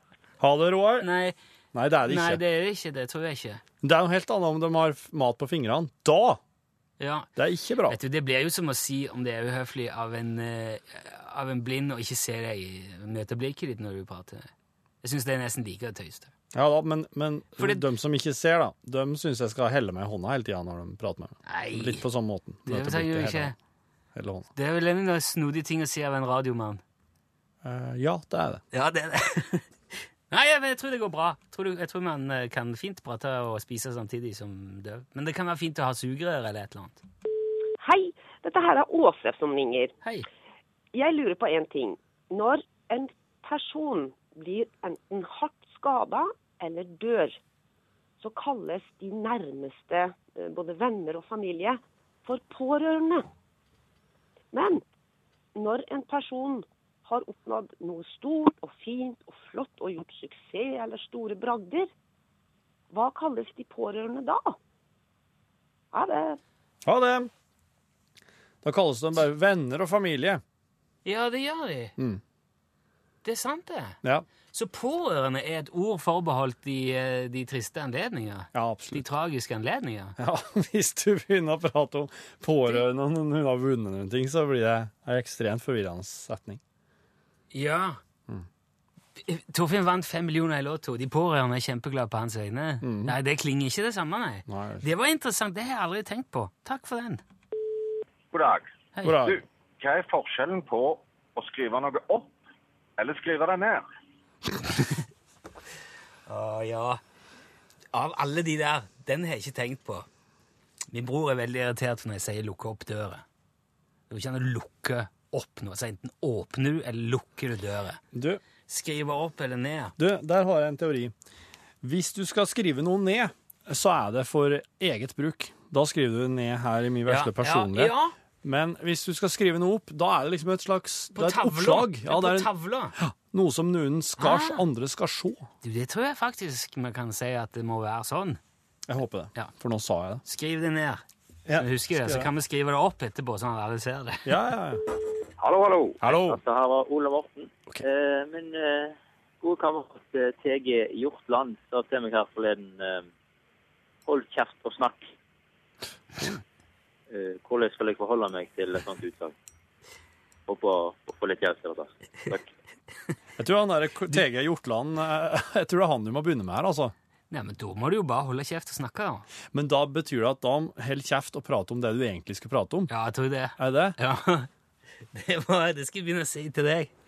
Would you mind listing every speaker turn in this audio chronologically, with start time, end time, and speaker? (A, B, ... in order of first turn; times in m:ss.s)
0:00.4-0:01.1 A
0:01.0-0:01.4 B
0:01.7-0:02.4 A
0:02.0-0:03.6 B
0:03.8-0:06.4 A
0:07.0-0:07.3 B
0:07.4-0:08.0 A
0:07.9-0:14.5 B
0:15.0-0:16.3 B
0:16.5-0:23.5 A
0:17.6-0:17.8 B
0:21.4-0:22.0 B
0:22.6-0:23.5 B
0:24.1-0:24.5 A
0:24.5-0:26.8 B
0:27.6-0:28.6 A
0:28.7-0:29.7 B
0:30.3-0:37.0 B
0:37.8-0:39.9 C
0:40.9-0:47.4 C
0:48.2-0:53.2 C
0:54.5-0:54.8 C
0:55.6-1:01.9 C
1:02.9-1:04.6 C
1:05.9-1:06.4 C
1:06.8-1:07.3 A
1:08.6-1:10.4 A
1:11.0-1:11.9 B
1:12.0-1:12.2 A
1:13.2-1:14.0 B
1:14.5-1:20.2 B
1:18.5-1:19.0 A
1:20.2-1:26.6 A
1:27.5-1:28.0 B
1:29.2-1:37.2 B
1:32.8-1:33.1 A
1:34.5-1:34.8 A
1:38.3-1:38.7 D
1:38.9-1:39.3 B
1:39.0-1:39.4 A
1:39.2-1:42.3 D
1:43.0-1:43.8 D
1:46.3-1:47.0 B
1:47.9-1:50.1 B
1:50.9-1:53.2 B
1:54.1-1:58.0 B
1:58.1-1:58.4 A
1:58.7-1:59.9 B
2:00.0-2:01.1 A
2:01.8-2:15.5 A
2:07.0-2:08.1 B
2:11.1-2:13.0 B
2:14.2-2:14.6 B
2:15.6-2:18.4 B
2:18.9-2:20.2 A
2:20.2-2:21.0 B
2:21.5-2:22.3 A
2:21.6-2:24.3 B
2:24.2-2:24.8 A
2:25.4-2:33.1 E
2:26.0-2:26.4 A
2:34.0-2:35.1 E
2:37.1-2:39.3 E
2:40.5-2:42.5 E
2:43.4-2:46.9 A
2:47.3-2:49.3 B
2:49.5-2:52.9 A
2:52.9-2:54.5 B
2:53.6-2:54.0 A
2:55.1-2:56.9 B